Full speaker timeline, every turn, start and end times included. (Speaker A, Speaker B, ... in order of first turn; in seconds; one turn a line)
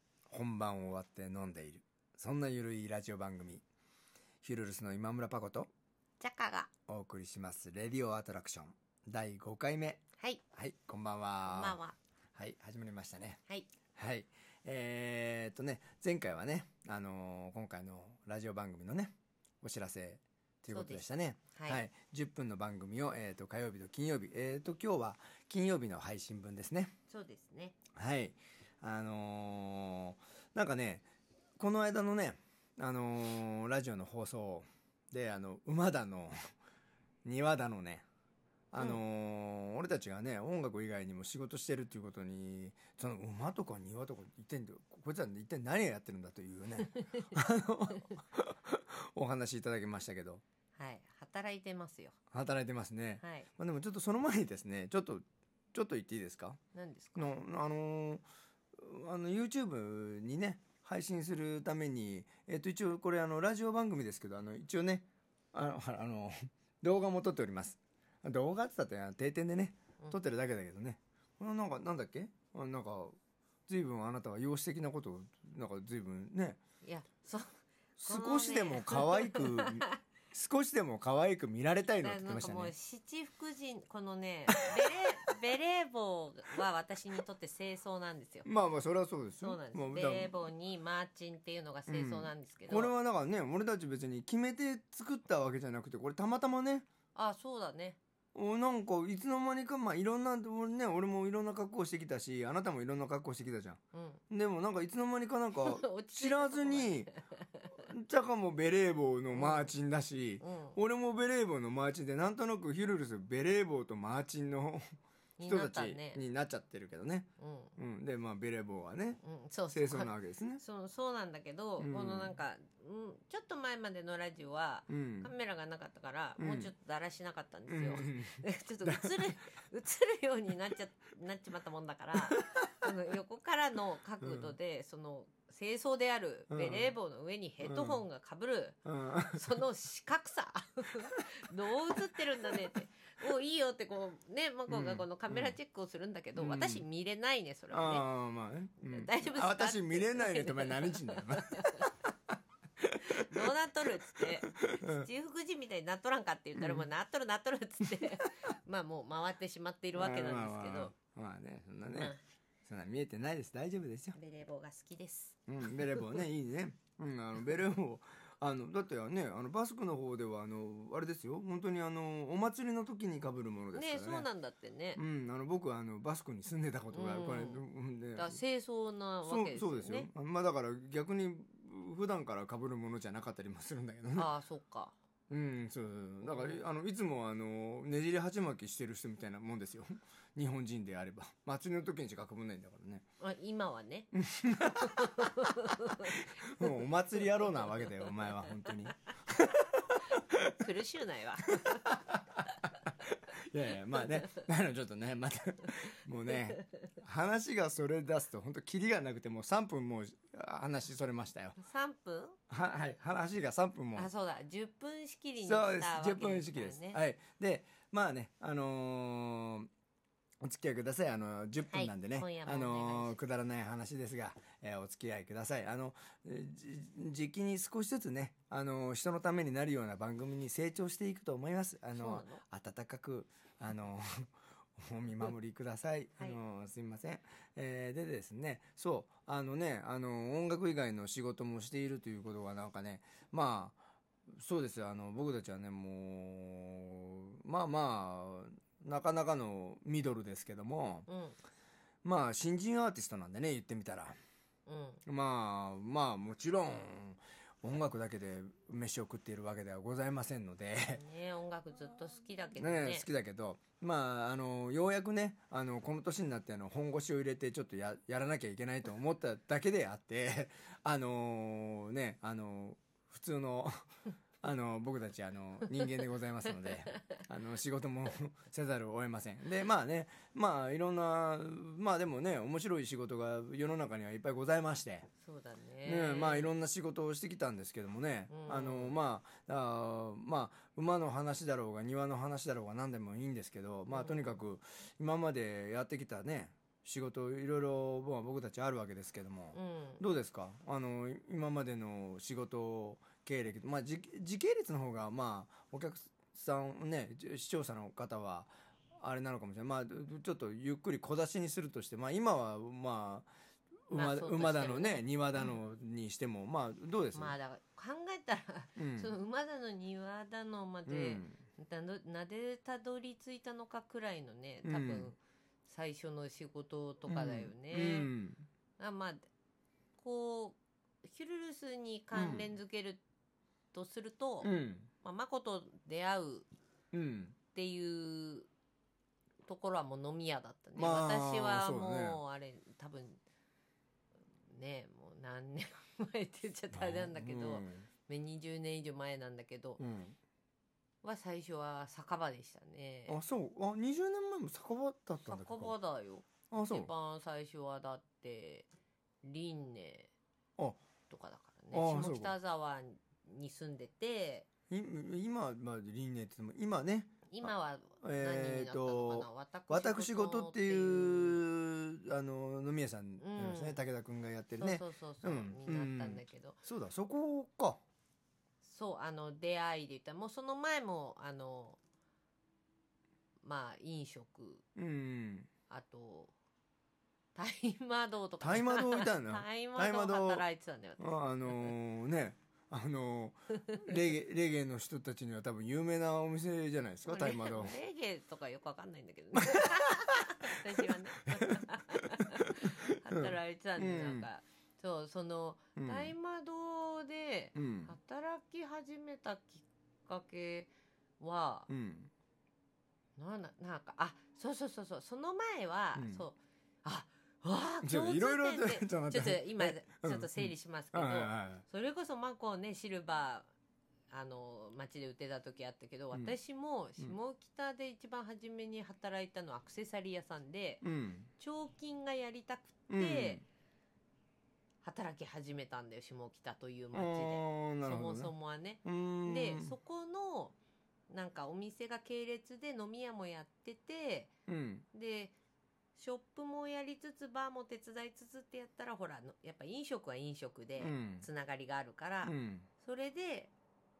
Speaker A: 0.3-3.6
Speaker A: 4.4-5.7
Speaker B: 6.2-6.7
Speaker A: 6.9-10.0
Speaker A: 10.5-11.8
Speaker B: 11.4-12.0
Speaker A: 12.4-13.4
Speaker A: 13.9-26.9
Speaker B: 20.7-21.8
Speaker B: 27.1-27.8
Speaker A: 27.9-31.1
Speaker A: 31.6-36.4
Speaker A: 37.2-38.0
Speaker A: 38.7-50.4
Speaker B: 46.8-47.3
Speaker B: 50.8-52.2
Speaker A: 52.3-56.6
Speaker B: 53.2-53.5
Speaker B: 56.7-57.3
Speaker A: 57.2-58.2
Speaker A: 58.8-76.6
Speaker B: 76.8-80.0
Speaker A: 78.0-82.7
Speaker B: 82.0-88.5
Speaker A: 88.5-90.3
Speaker B: 89.4-92.9
Speaker A: 91.9-96.9
Speaker B: 97.2-98.0
Speaker A: 98.3-107.1
Speaker B: 103.9-104.2
Speaker B: 105.6-107.7
Speaker A: 107.8-120.6
Speaker B: 109.3-109.7
Speaker B: 110.4-110.8
Speaker B: 115.4-116.2
Speaker B: 117.4-117.8
Speaker B: 119.2-138.8
Speaker A: 121.8-122.4
Speaker A: 124.9-125.3
Speaker A: 126.4-126.7
Speaker A: 127.7-129.2
Speaker A: 134.2-134.5
Speaker A: 136.5-136.9
Speaker A: 137.6-138.0
Speaker A: 138.8-139.5
Speaker B: 139.3-148.1
Speaker A: 144.7-145.6
Speaker A: 146.3-146.8
Speaker A: 147.7-151.9
Speaker B: 148.8-151.9
Speaker A: 152.8-153.2
Speaker B: 153.1-160.9
Speaker A: 154.1-155.1
Speaker A: 156.6-156.9
Speaker A: 159.9-162.1
Speaker B: 161.8-162.2
Speaker A: 162.6-164.2
Speaker B: 164.1-165.4
Speaker A: 165.5-174.3
Speaker B: 173.7-175.0
Speaker A: 174.9-178.4
Speaker B: 176.9-177.6
Speaker B: 178.2-180.1
Speaker A: 179.2-184.3
Speaker B: 184.1-184.9
Speaker A: 185.3-193.1
Speaker B: 186.2-186.6
Speaker B: 193.2-194.1
Speaker A: 194.1-195.3
Speaker B: 194.7-198.7
Speaker A: 196.0-200.5
Speaker B: 200.5-201.9
Speaker A: 201.6-202.2
Speaker A: 202.9-211.6
Speaker B: 211.6-212.4
Speaker A: 212.5-214.1
Speaker B: 213.9-217.0
Speaker A: 215.4-219.7
Speaker A: 220.4-251.1
Speaker B: 221.6-223.2
Speaker B: 231.9-232.4
Speaker B: 251.1-251.4
Speaker A: 252.0-254.2
Speaker B: 254.7-255.0
Speaker A: 255.0-261.0
Speaker B: 260.9-263.1
Speaker A: 262.6-273.9
Speaker A: 274.4-285.1
Speaker B: 276.7-277.0
Speaker B: 285.2-286.5
Speaker A: 285.9-313.3
Speaker B: 288.3-289.0
Speaker B: 293.9-294.4
Speaker B: 299.5-300.0
Speaker A: 313.9-317.4
Speaker B: 313.9-315.1
Speaker B: 317.1-328.1
Speaker A: 318.8-319.1
Speaker A: 320.9-321.4
Speaker A: 324.6-325.1
Speaker A: 327.1-328.5
Speaker B: 328.8-329.3
Speaker B: 330.0-333.0
Speaker A: 332.1-332.5
Speaker B: 333.7-334.5
Speaker A: 334.4-334.9
Speaker B: 335.0-336.5
Speaker A: 336.9-337.4
Speaker B: 337.5-338.5
Speaker B: 339.5-343.2
Speaker A: 340.8-342.2
Speaker B: 344.5-349.8
Speaker A: 346.7-347.9
Speaker A: 349.8-350.2
Speaker B: 351.0-353.2
Speaker A: 353.1-355.8
Speaker B: 355.2-358.7
Speaker A: 356.5-356.9
Speaker B: 359.2-360.1
Speaker B: 361.1-364.5
Speaker A: 361.7-362.3
Speaker A: 364.7-377.8
Speaker B: 367.3-371.4
Speaker B: 373.2-373.8
Speaker B: 374.6-376.6
Speaker B: 378.6-381.8
Speaker B: 383.4-384.6
Speaker A: 384.8-385.5
Speaker B: 385.7-386.3
Speaker B: 387.4-391.8
Speaker A: 388.4-390.4
Speaker A: 391.0-397.8
Speaker B: 397.1-411.7
Speaker A: 399.4-399.8
Speaker A: 402.2-404.3
Speaker A: 405.8-406.1
Speaker A: 407.6-407.9
Speaker A: 411.7-412.1
Speaker B: 413.2-423.5
Speaker A: 415.9-416.2
Speaker A: 417.8-421.6
Speaker B: 424.1-430.8
Speaker A: 430.8-431.3
Speaker B: 431.4-433.4
Speaker A: 432.9-433.4
Speaker B: 434.8-440.6
Speaker A: 436.9-438.3
Speaker A: 438.9-439.7
Speaker B: 441.1-444.3
Speaker A: 444.5-444.9
Speaker B: 444.9-445.3
Speaker B: 446.0-453.5
Speaker A: 450.8-451.3
Speaker A: 452.2-452.7